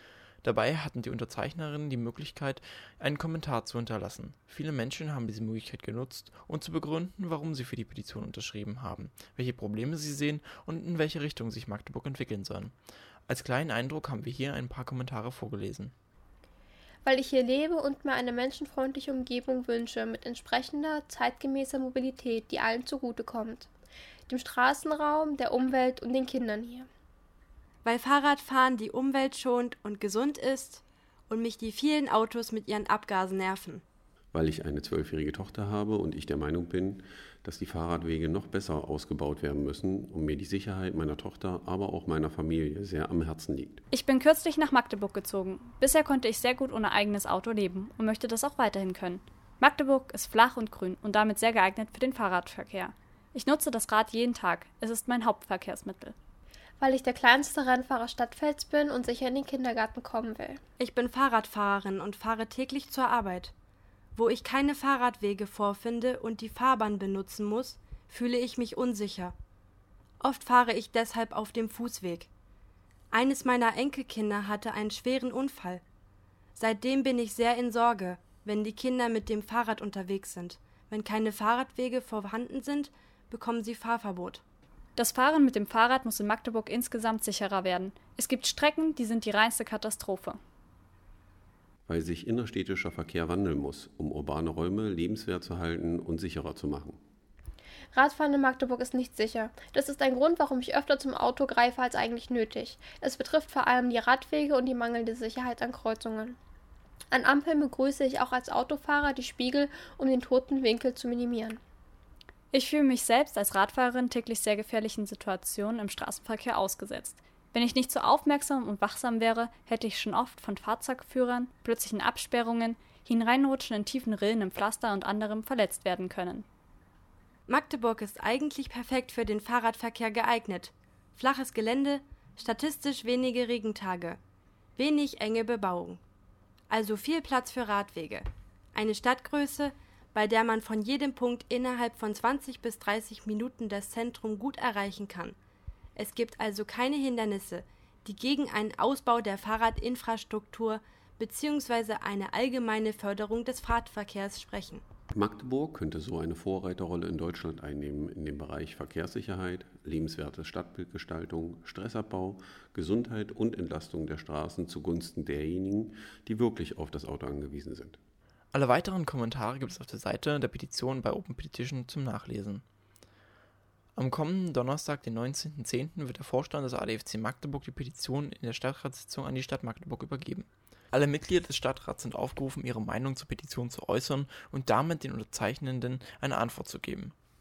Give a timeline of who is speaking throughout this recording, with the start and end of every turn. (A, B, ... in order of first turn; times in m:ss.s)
0:00.4-0:12.7 A
0:13.3-0:15.9 A
0:17.0-0:23.7 B
0:24.3-0:26.9 B
0:27.8-0:33.8 C
0:34.3-0:43.8 D
0:43.9-0:56.2 E
0:56.8-1:00.6 B
1:00.8-1:03.5 C
1:04.2-1:09.4 C
1:10.2-1:12.3 C
1:13.1-1:15.8 C
1:16.6-1:24.4 C
1:25.0-1:30.4 E
1:31.9-1:37.0 D
1:37.9-1:46.4 B
1:47.1-1:51.6 B
1:52.5-2:06.4 E
2:07.5-2:14.2 C
2:14.8-2:16.0 C
2:16.7-2:25.4 C
2:26.0-2:34.8 C
2:35.1-2:48.0 D
2:48.5-2:52.6 A
2:54.0-3:07.1 A